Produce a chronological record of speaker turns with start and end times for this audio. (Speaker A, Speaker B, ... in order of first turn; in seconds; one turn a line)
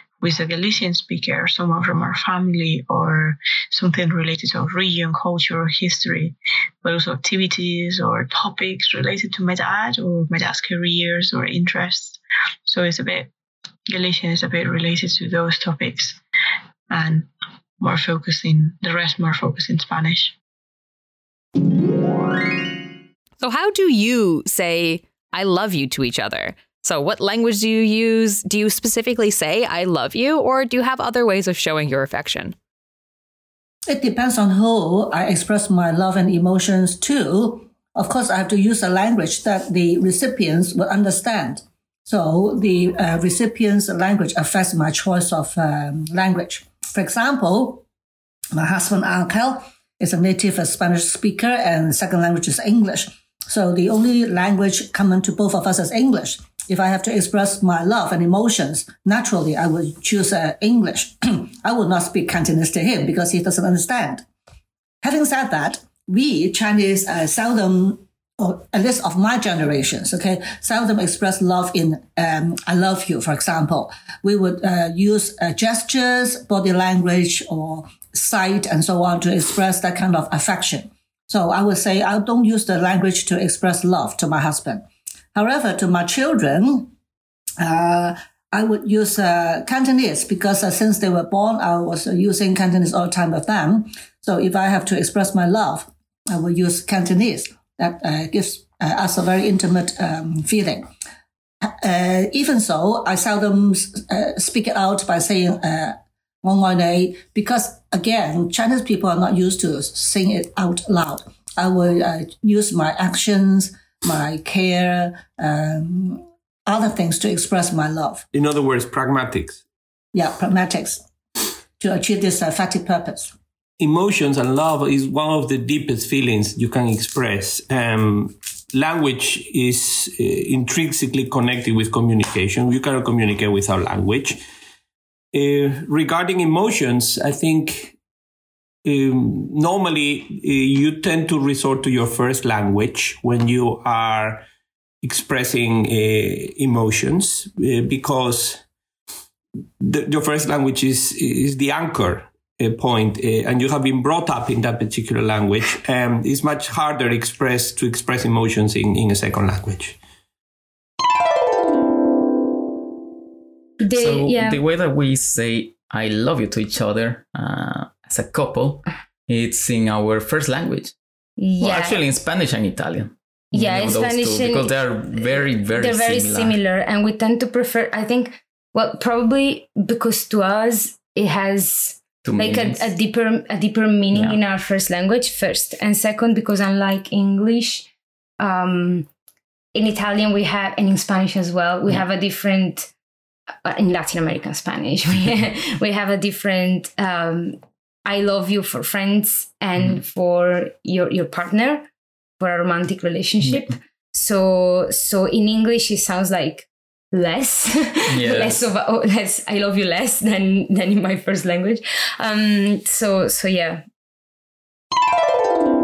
Speaker A: 0.2-13.3
Speaker A: 13.9-16.2
Speaker A: 16.9-17.3
Speaker A: 17.8-20.4
Speaker B: 23.4-32.5
Speaker C: 33.9-47.8
Speaker C: 48.5-64.2
Speaker C: 65.0-86.9
Speaker C: 87.6-100.9
Speaker C: 101.7-118.2
Speaker D: 118.3-119.6
Speaker C: 120.1-121.0
Speaker C: 121.8-123.3
Speaker D: 123.8-134.4
Speaker D: 135.3-138.0
Speaker D: 138.8-144.5
Speaker D: 145.0-148.6
Speaker D: 149.8-160.0
Speaker E: 163.8-164.6
Speaker F: 163.9-170.9
Speaker E: 171.4-172.0
Speaker F: 171.6-176.6
Speaker E: 173.5-187.9
Speaker F: 182.2-182.9
Speaker F: 184.1-184.4
Speaker E: 188.4-189.1
Speaker E: 189.7-192.9
Speaker E: 193.7-201.9
Speaker E: 202.4-213.8
Speaker F: 208.1-208.7